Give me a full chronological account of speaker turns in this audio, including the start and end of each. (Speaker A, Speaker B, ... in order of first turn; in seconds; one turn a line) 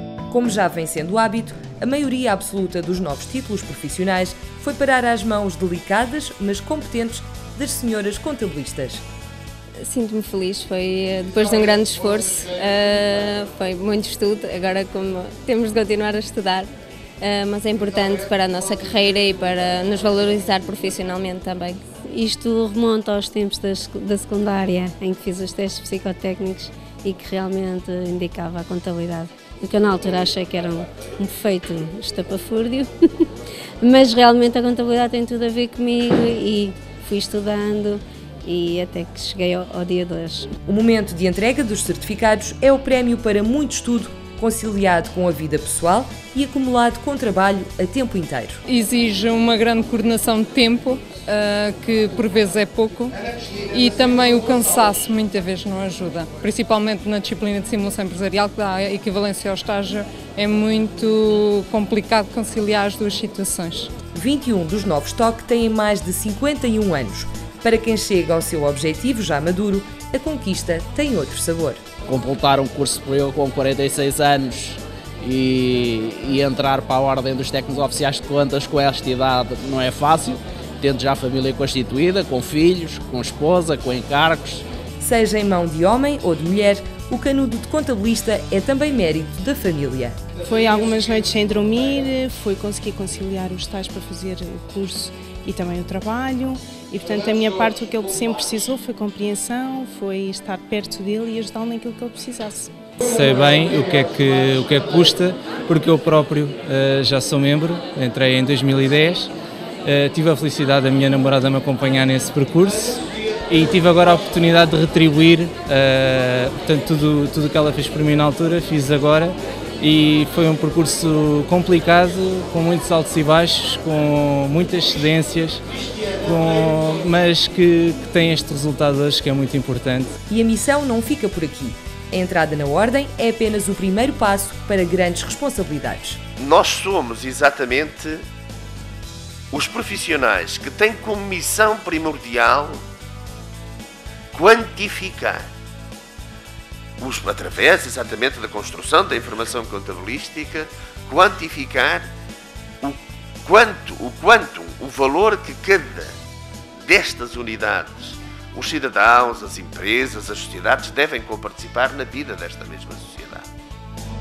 Speaker A: 0.3-9.0
Speaker B: 9.8-21.8
Speaker C: 22.2-32.8
Speaker C: 33.9-40.5
Speaker A: 40.7-48.6
Speaker D: 48.7-53.2
Speaker D: 53.7-63.9
Speaker A: 64.1-71.8
Speaker E: 72.1-84.7
Speaker A: 85.0-90.2
Speaker F: 90.5-102.7
Speaker G: 103.1-109.3
Speaker G: 109.8-125.6
Speaker G: 126.2-130.2
Speaker A: 130.3-136.2
Speaker H: 136.4-138.2
Speaker H: 139.5-142.8
Speaker H: 144.3-145.4
Speaker H: 147.0-152.1
Speaker H: 152.8-156.1
Speaker H: 156.8-163.5